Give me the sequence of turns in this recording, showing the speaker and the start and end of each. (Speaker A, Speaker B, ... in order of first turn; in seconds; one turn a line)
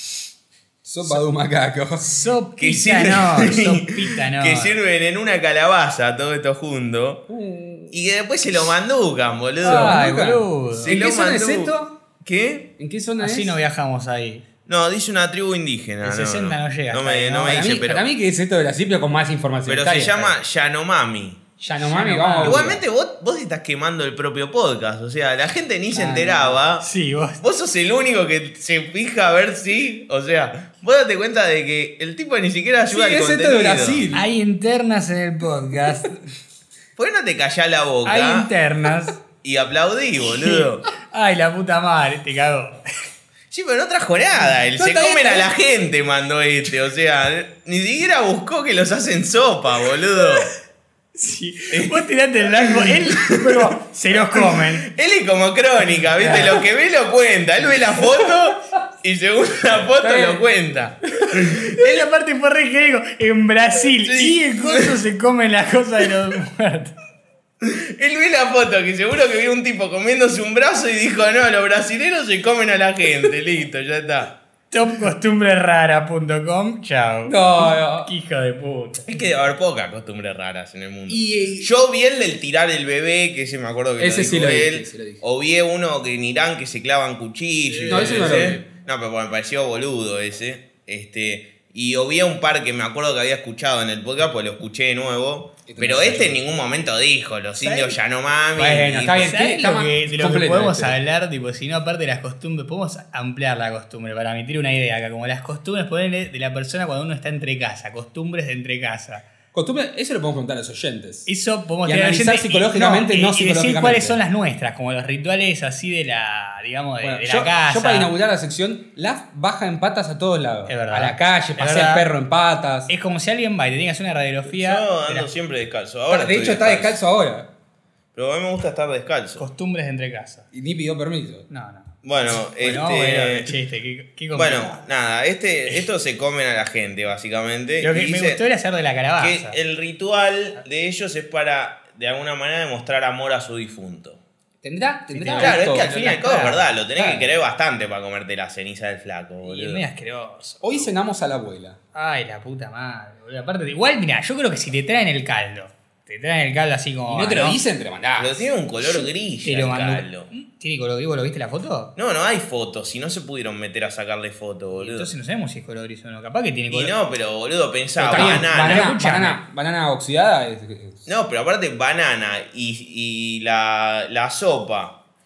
Speaker A: 0.8-2.1
Speaker B: 2.0-4.8
Speaker C: 2.6-7.2
Speaker A: 7.3-8.0
Speaker C: 7.9-10.1
Speaker B: 9.6-11.0
Speaker A: 9.6-11.9
Speaker C: 10.9-12.7
Speaker A: 12.8-13.6
Speaker B: 13.2-14.4
Speaker C: 14.7-18.1
Speaker B: 16.0-17.8
Speaker A: 17.5-20.4
Speaker C: 19.7-21.4
Speaker A: 21.6-22.8
Speaker B: 21.9-22.7
Speaker C: 22.4-26.9
Speaker A: 25.9-26.6
Speaker B: 26.8-27.4
Speaker C: 27.4-34.0
Speaker A: 32.9-34.3
Speaker B: 34.1-36.2
Speaker C: 37.0-38.5
Speaker B: 38.0-39.2
Speaker C: 39.4-40.9
Speaker B: 40.4-42.8
Speaker C: 43.5-50.5
Speaker A: 44.8-45.5
Speaker B: 51.2-54.9
Speaker C: 51.7-62.0
Speaker B: 56.2-56.6
Speaker B: 60.0-60.4
Speaker B: 61.2-66.9
Speaker C: 64.0-65.0
Speaker C: 67.6-74.4
Speaker B: 74.7-79.1
Speaker A: 77.3-78.1
Speaker C: 79.1-99.4
Speaker A: 81.1-81.7
Speaker A: 84.0-85.2
Speaker B: 87.7-88.4
Speaker A: 87.9-88.6
Speaker A: 95.7-96.4
Speaker B: 97.6-98.0
Speaker B: 98.6-109.3
Speaker A: 98.6-101.0
Speaker A: 109.5-111.3
Speaker B: 111.3-118.1
Speaker A: 111.8-114.2
Speaker A: 117.0-122.9
Speaker B: 120.7-122.1
Speaker B: 122.9-125.3
Speaker C: 124.5-127.0
Speaker A: 126.1-127.5
Speaker C: 128.2-129.4
Speaker B: 129.4-130.5
Speaker A: 130.5-131.5
Speaker B: 131.5-134.8
Speaker C: 132.0-133.6
Speaker C: 134.3-138.4
Speaker B: 137.8-139.6
Speaker C: 139.2-144.2
Speaker A: 144.6-145.9
Speaker B: 145.1-146.7
Speaker C: 145.4-149.8
Speaker A: 147.0-147.3
Speaker B: 149.4-150.9
Speaker A: 150.6-151.8
Speaker B: 151.9-157.6
Speaker A: 157.1-158.5
Speaker C: 158.2-160.3
Speaker B: 159.4-161.9
Speaker C: 162.0-165.1
Speaker B: 164.8-167.0
Speaker C: 166.7-168.9
Speaker A: 168.0-171.1
Speaker B: 168.1-169.4
Speaker C: 171.1-175.0